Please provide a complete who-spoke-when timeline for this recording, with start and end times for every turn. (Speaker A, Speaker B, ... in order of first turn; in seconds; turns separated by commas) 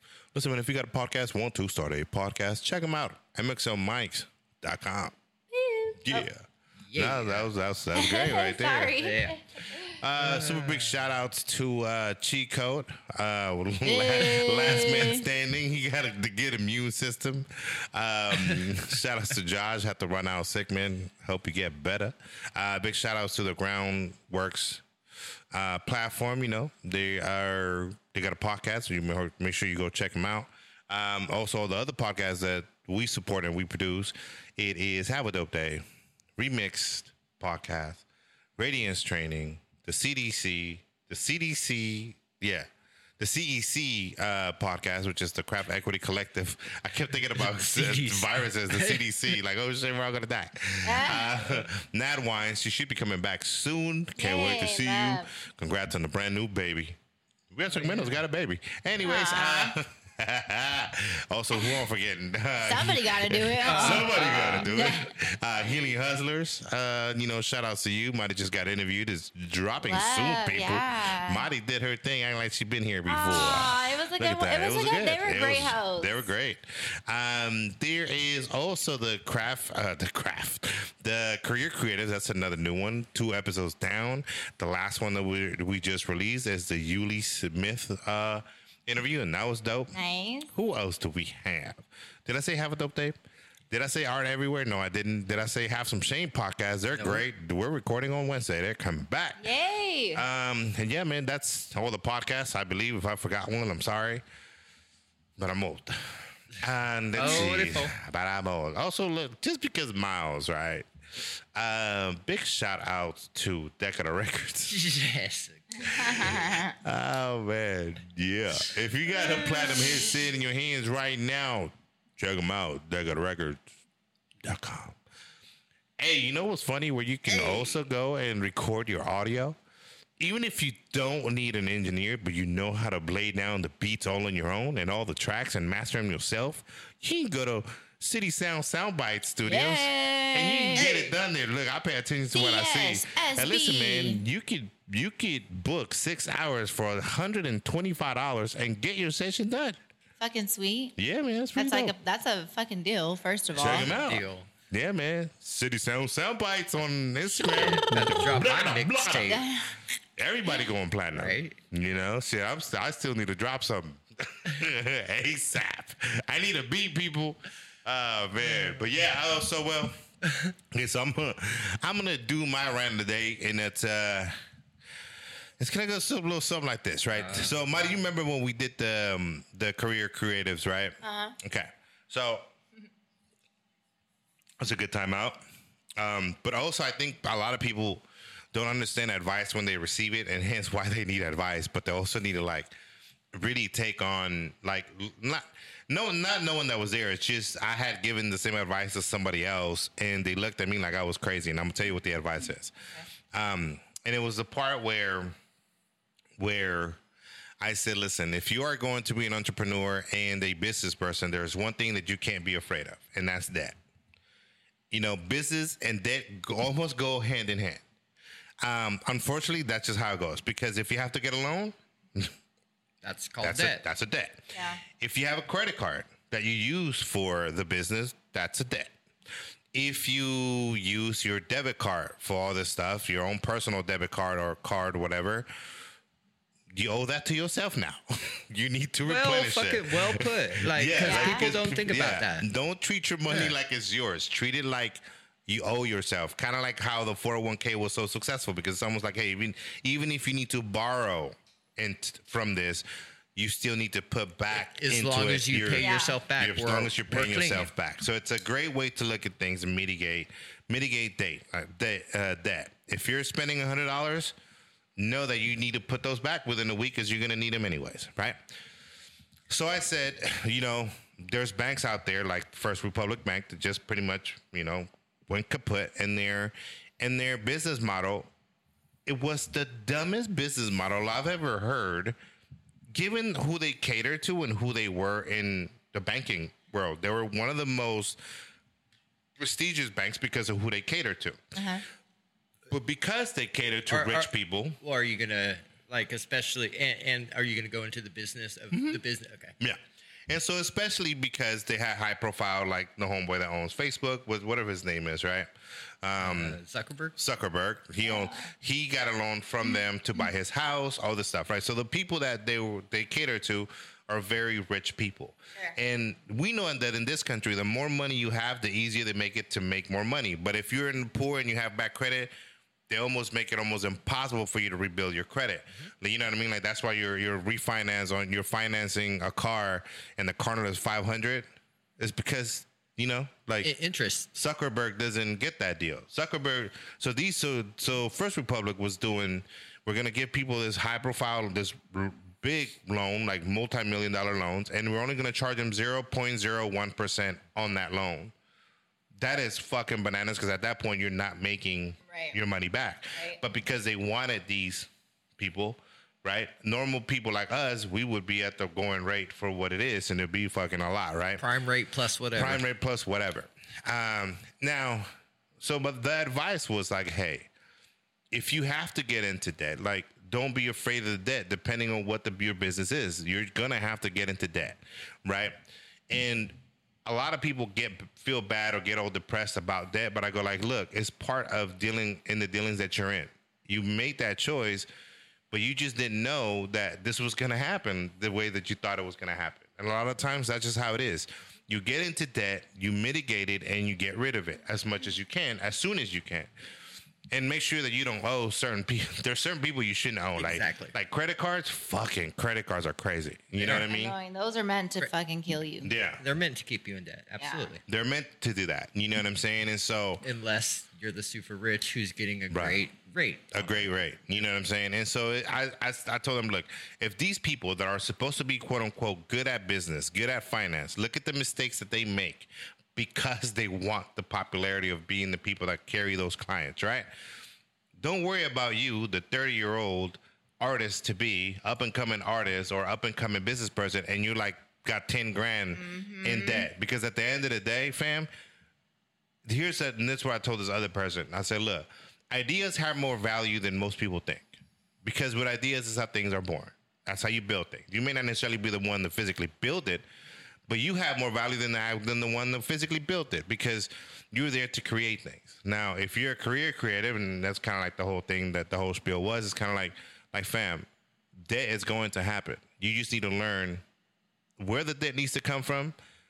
Speaker A: 0.3-5.2, Speaker B: 5.5-6.3, Speaker A: 6.0-6.5, Speaker C: 6.8-7.5, Speaker A: 7.0-9.0, Speaker B: 7.9-10.0, Speaker C: 9.0-9.4, Speaker A: 9.9-24.8, Speaker C: 10.2-11.0, Speaker B: 13.8-15.2, Speaker A: 25.5-35.8, Speaker A: 36.4-38.0, Speaker A: 38.6-42.7, Speaker A: 43.2-57.0, Speaker C: 47.4-49.4, Speaker B: 50.8-51.3, Speaker B: 54.2-55.3, Speaker A: 57.5-89.9, Speaker C: 57.7-58.2, Speaker B: 59.0-59.8, Speaker B: 62.6-65.1, Speaker C: 63.6-64.7, Speaker B: 69.8-71.5, Speaker B: 73.1-76.1, Speaker B: 89.9-90.5, Speaker A: 90.5-93.2, Speaker A: 93.7-99.5, Speaker C: 96.9-97.2, Speaker B: 99.4-100.2, Speaker A: 100.1-104.2, Speaker A: 105.4-114.8, Speaker C: 107.1-108.0, Speaker C: 114.7-116.3, Speaker B: 115.8-116.8, Speaker A: 115.9-123.6, Speaker B: 119.3-120.0, Speaker A: 124.4-125.0, Speaker A: 126.0-129.6, Speaker B: 127.4-127.6, Speaker A: 130.2-149.8, Speaker B: 139.4-140.9, Speaker C: 140.8-141.1, Speaker B: 142.3-144.2, Speaker B: 150.2-150.9, Speaker A: 151.0-151.9, Speaker B: 151.6-153.9, Speaker C: 153.6-154.5, Speaker A: 153.6-159.5, Speaker C: 157.3-159.4, Speaker B: 159.3-159.8, Speaker A: 160.2-170.0, Speaker C: 161.1-161.6, Speaker C: 168.5-168.8, Speaker A: 170.7-174.3, Speaker A: 175.6-182.5, Speaker C: 177.1-177.9, Speaker B: 181.0-181.4, Speaker A: 184.6-185.4, Speaker A: 186.0-192.7, Speaker A: 193.3-202.7, Speaker A: 203.3-205.3, Speaker A: 206.4-207.0, Speaker A: 207.6-213.8, Speaker A: 214.9-217.8, Speaker A: 218.6-222.3, Speaker C: 223.0-223.8, Speaker A: 223.4-228.9, Speaker B: 224.5-224.8, Speaker A: 229.7-235.5, Speaker A: 236.7-264.3, Speaker C: 239.0-242.5, Speaker B: 241.0-241.5, Speaker C: 243.3-243.5, Speaker C: 254.5-257.7, Speaker B: 255.8-256.2, Speaker A: 265.0-268.4, Speaker A: 269.5-278.3, Speaker A: 279.1-282.2, Speaker A: 282.9-288.2, Speaker A: 289.4-291.4, Speaker B: 291.6-291.8, Speaker A: 292.7-294.8, Speaker C: 293.9-299.6, Speaker A: 298.7-299.0, Speaker A: 299.6-305.5, Speaker A: 306.0-306.6, Speaker C: 306.2-307.2, Speaker A: 307.2-322.3, Speaker B: 308.0-308.5, Speaker A: 322.9-331.5, Speaker A: 332.0-333.7, Speaker C: 333.6-334.3, Speaker A: 334.3-348.3, Speaker A: 349.2-361.4, Speaker B: 352.1-352.4, Speaker B: 353.1-353.4, Speaker C: 361.4-362.6, Speaker A: 362.4-367.5, Speaker A: 368.3-375.6, Speaker A: 376.1-384.9, Speaker A: 385.5-396.5, Speaker A: 397.3-404.2, Speaker C: 400.4-400.9, Speaker C: 403.6-403.9, Speaker B: 403.7-405.9, Speaker A: 405.8-406.2, Speaker C: 406.2-407.8, Speaker B: 407.4-407.7, Speaker A: 407.9-410.2, Speaker C: 410.2-413.9, Speaker A: 412.5-412.8, Speaker A: 413.5-427.1, Speaker A: 428.0-438.3, Speaker B: 435.7-436.7, Speaker A: 439.4-450.0, Speaker A: 450.7-463.8, Speaker A: 464.6-465.9